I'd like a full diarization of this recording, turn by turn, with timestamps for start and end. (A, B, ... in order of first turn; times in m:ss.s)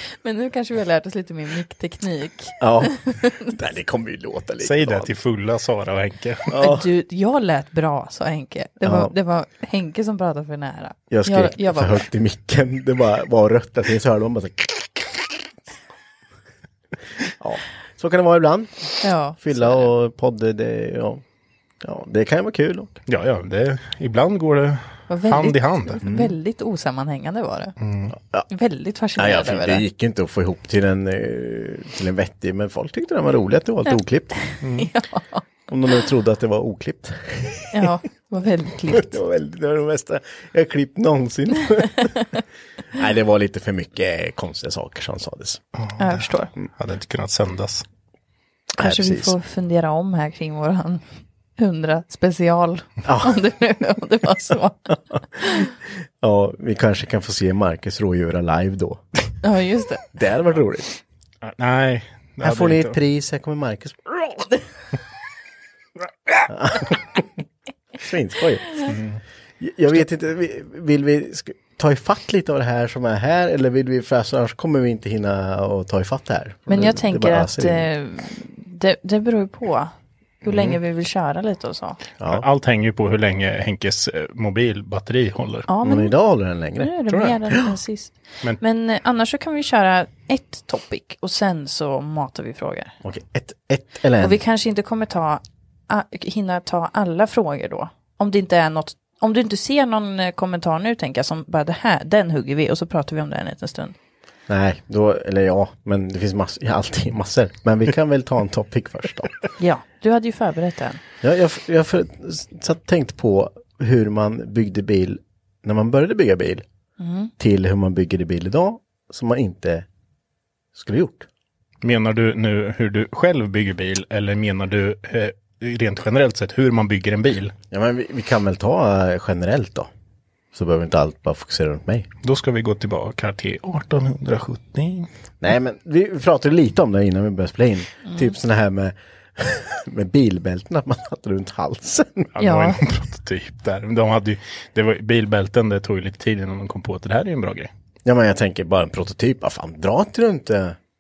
0:00.2-0:03.5 A
0:02.6-0:05.1 B
0:04.6-0:06.5 C
0:06.5-0:06.9 B
0:06.6-0:12.1 A
0:08.8-0:09.1 B
0:11.1-0:15.1 B
0:17.4-0:21.2 B
0:19.0-0:19.9 A
0:21.8-0:23.0 B
0:23.1-0:26.0 C
0:25.1-0:27.7 A
0:26.0-0:26.4 B
0:27.8-0:28.1 C
0:28.1-0:28.5 B
0:28.5-0:29.8 A
0:29.2-0:34.4 B
0:34.6-0:34.9 C
0:34.7-0:35.4 A
0:35.7-0:37.9 B
0:37.7-0:39.2 A
0:38.9-0:42.2 B
0:42.9-0:45.6 B
0:45.8-0:47.8 C
0:46.0-0:46.5 A
0:48.8-0:51.0 A
0:48.8-0:49.4 B
0:51.6-0:55.7 A
0:53.0-0:53.4 B
0:56.2-0:59.1 B
0:59.4-1:00.0 A
1:00.1-1:01.0 B
1:01.4-1:03.0 C
1:02.4-1:04.5 B
1:06.5-1:07.2 B
1:08.0-1:08.9 B
1:08.8-1:09.2 C
1:09.6-1:17.9 B
1:16.7-1:19.9 A
1:20.4-1:22.0 A
1:20.4-1:20.8 B
1:22.2-1:22.4 B
1:22.3-1:25.7 C
1:25.7-1:26.1 A
1:25.8-1:26.9 B
1:26.8-1:32.9 A
1:27.1-1:27.4 C
1:33.0-1:34.4 B
1:34.2-1:44.0 A
1:44.5-1:49.4 B
1:49.6-1:51.0 A
1:51.2-1:56.6 B
1:57.0-1:57.3 A
1:57.4-1:59.9 B
2:00.7-2:01.3 B
2:01.8-2:07.5 C
2:07.7-2:09.9 B
2:10.5-2:12.1 B
2:12.2-2:15.1 C
2:15.4-2:22.3 B
2:18.0-2:18.3 A
2:22.4-2:27.7 C
2:22.4-2:22.8 A
2:28.0-2:30.8 B